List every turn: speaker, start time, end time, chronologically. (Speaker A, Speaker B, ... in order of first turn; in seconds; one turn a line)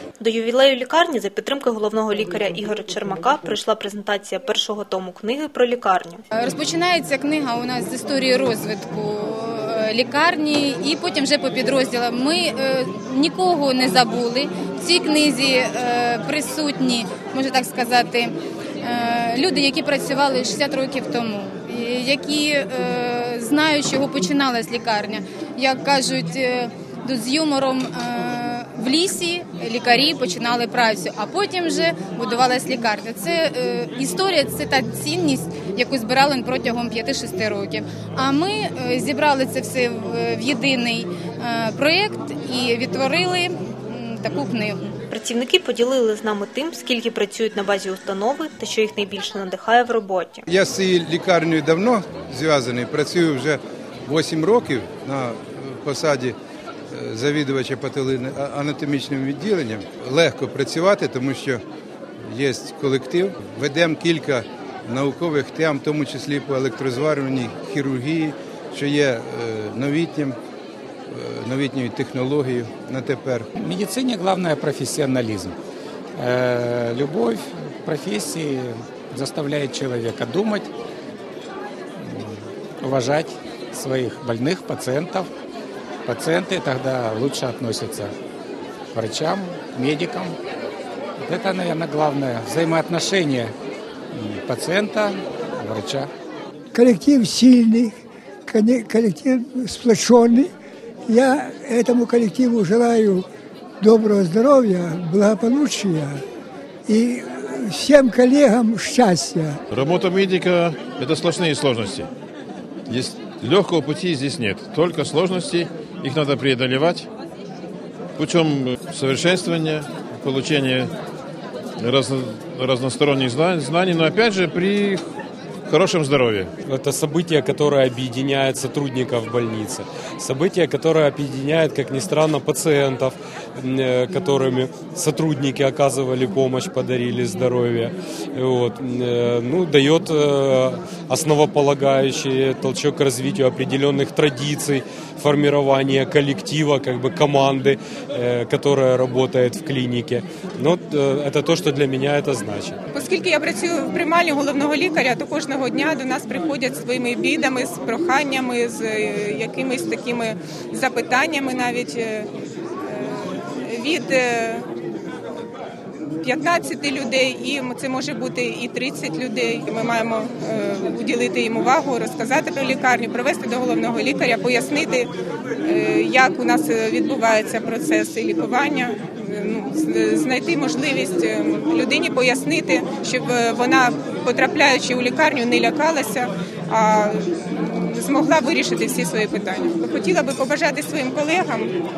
Speaker A: 0.2-6.2
Speaker B: 6.3-44.9
Speaker A: 45.1-50.5
Speaker C: 50.5-56.4
Speaker C: 56.9-61.6
Speaker C: 62.3-70.4
Speaker C: 71.1-73.5
Speaker D: 73.6-75.6
Speaker D: 76.2-80.7
Speaker D: 82.0-85.3
Speaker D: 86.0-88.1
Speaker D: 88.9-90.4
Speaker D: 91.2-93.5
Speaker D: 94.1-96.1
Speaker E: 96.7-97.9
Speaker E: 98.5-100.5
Speaker E: 101.1-103.2
Speaker E: 103.8-106.2
Speaker E: 106.9-109.6
Speaker F: 109.7-112.1
Speaker F: 112.9-117.1
Speaker F: 118.2-120.9
Speaker F: 121.8-125.0
Speaker F: 125.7-126.5
Speaker G: 126.7-152.8
Speaker H: 152.9-162.3
Speaker H: 162.9-164.7
Speaker H: 166.2-175.1
Speaker H: 175.6-191.7